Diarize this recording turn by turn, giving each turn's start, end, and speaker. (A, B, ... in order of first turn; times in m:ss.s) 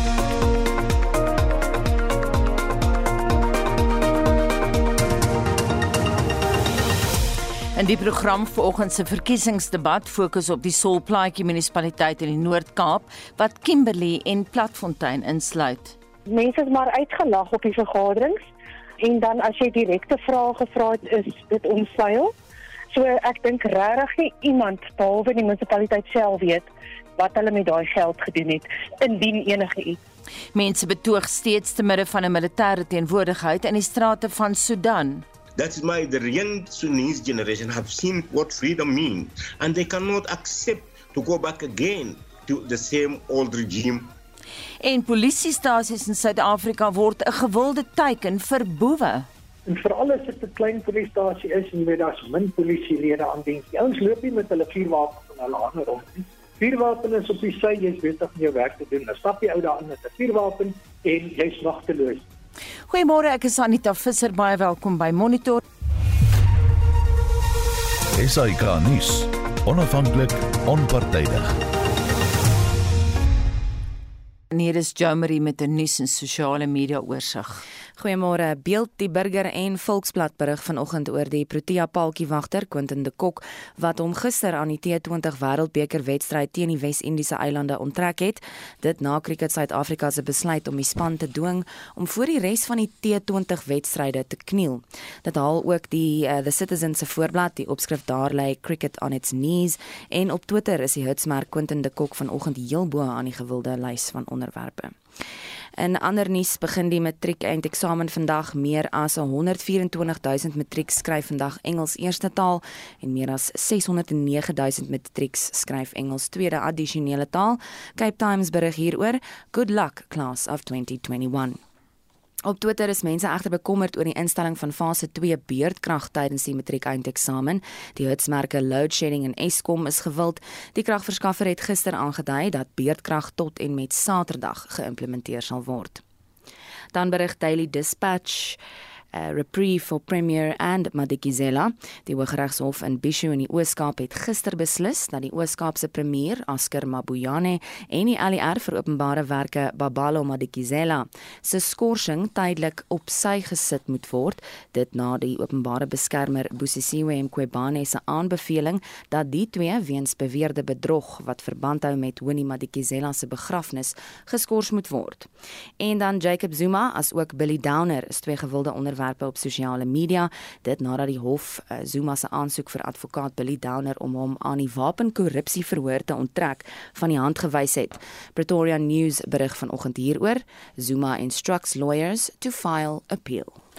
0:07.7-0:16.0 A
0:16.3-0:18.4 B
0:19.0-0:22.3 B
0:22.9-0:30.0 B
0:30.5-0:35.2 A
0:35.6-0:44.1 C
0:44.8-0:49.3 A
0:49.6-1:02.2 D
1:02.9-1:05.6 A
1:08.1-1:11.6 E
1:14.5-1:17.6 A
1:18.0-1:45.0 F
1:45.8-2:01.6 F
2:02.4-2:16.0 F
2:16.9-2:18.6 F
2:19.1-3:03.6 F